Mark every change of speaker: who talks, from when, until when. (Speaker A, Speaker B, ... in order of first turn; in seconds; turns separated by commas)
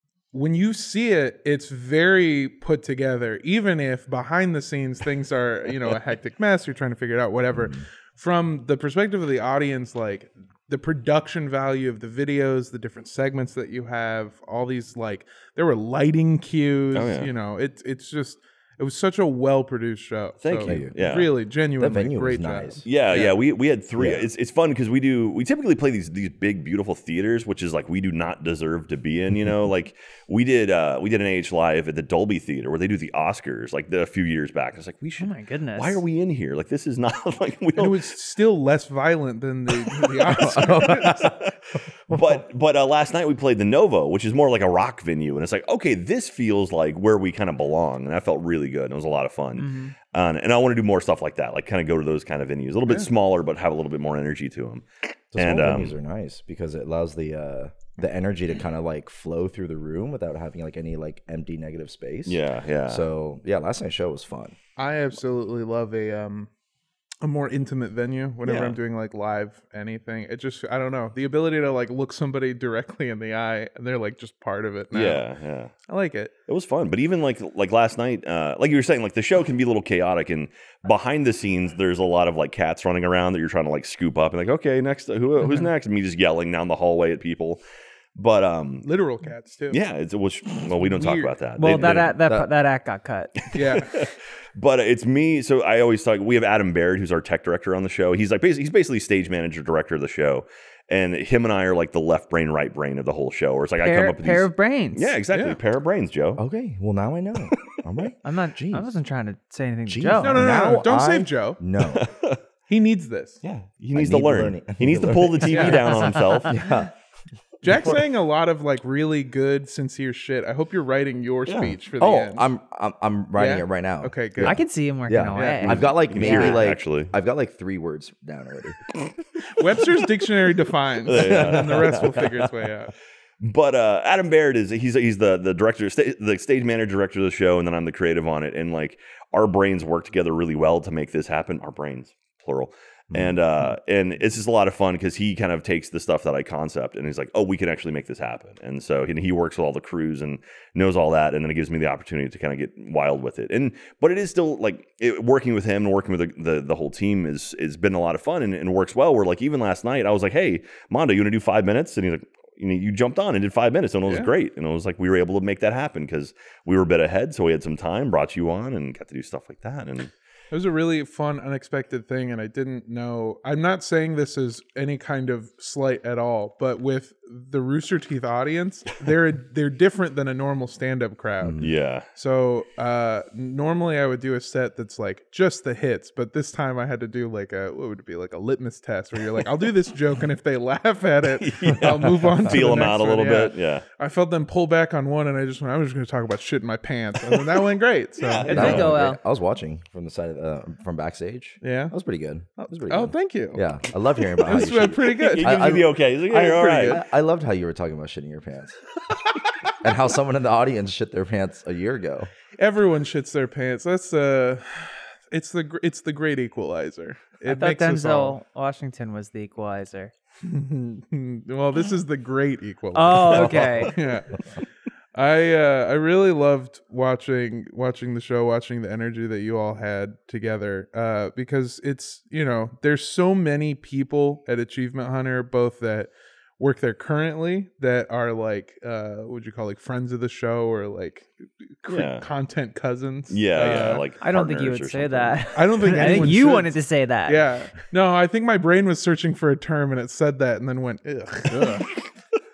Speaker A: 0.3-23.4, Speaker B: 16.9-17.3, Speaker B: 20.4-21.3, Speaker C: 20.6-20.9, Speaker C: 21.8-22.9, Speaker B: 22.9-38.1, Speaker C: 24.0-24.3, Speaker D: 35.2-36.0, Speaker A: 37.8-41.3, Speaker B: 40.0-55.9, Speaker C: 40.6-41.3, Speaker D: 49.6-49.9, Speaker C: 55.3-64.6, Speaker B: 62.2-63.0, Speaker A: 64.8-66.5, Speaker A: 67.2-75.2, Speaker B: 68.4-68.8, Speaker B: 74.9-75.7, Speaker A: 75.9-76.3, Speaker B: 76.5-87.6, Speaker B: 88.1-88.9, Speaker A: 88.8-89.8, Speaker B: 89.7-92.2, Speaker A: 90.9-91.3, Speaker D: 91.6-93.6, Speaker A: 93.5-93.9, Speaker B: 93.9-106.4, Speaker D: 103.8-105.1, Speaker A: 105.3-105.6, Speaker C: 106.4-108.9, Speaker D: 108.2-110.4, Speaker C: 109.9-112.1, Speaker A: 110.2-111.6, Speaker B: 111.9-112.4, Speaker A: 112.7-113.4, Speaker B: 113.4-116.6, Speaker C: 113.9-116.9, Speaker A: 115.5-115.8, Speaker D: 115.6-116.6, Speaker A: 117.6-122.5, Speaker C: 117.7-117.9, Speaker B: 121.5-121.7, Speaker C: 121.7-128.8, Speaker A: 123.4-124.6, Speaker D: 124.4-126.6, Speaker A: 125.4-125.6, Speaker B: 125.6-127.1, Speaker A: 129.5-132.9, Speaker B: 131.1-132.4, Speaker C: 131.2-132.1, Speaker B: 133.4-170.1, Speaker C: 143.1-143.7, Speaker A: 170.5-198.8, Speaker C: 181.4-181.7, Speaker B: 181.6-182.1, Speaker B: 191.4-193.8, Speaker B: 198.2-198.9, Speaker D: 198.4-199.2, Speaker C: 198.5-208.8, Speaker A: 201.6-201.9, Speaker A: 202.8-203.6, Speaker A: 204.4-207.0, Speaker B: 205.2-207.0, Speaker C: 209.8-212.3, Speaker A: 212.6-218.3, Speaker D: 217.5-220.1, Speaker A: 220.4-224.4, Speaker D: 222.9-224.0, Speaker A: 225.2-244.0, Speaker B: 241.9-242.3, Speaker B: 243.3-246.4, Speaker D: 244.2-247.4, Speaker A: 245.6-251.9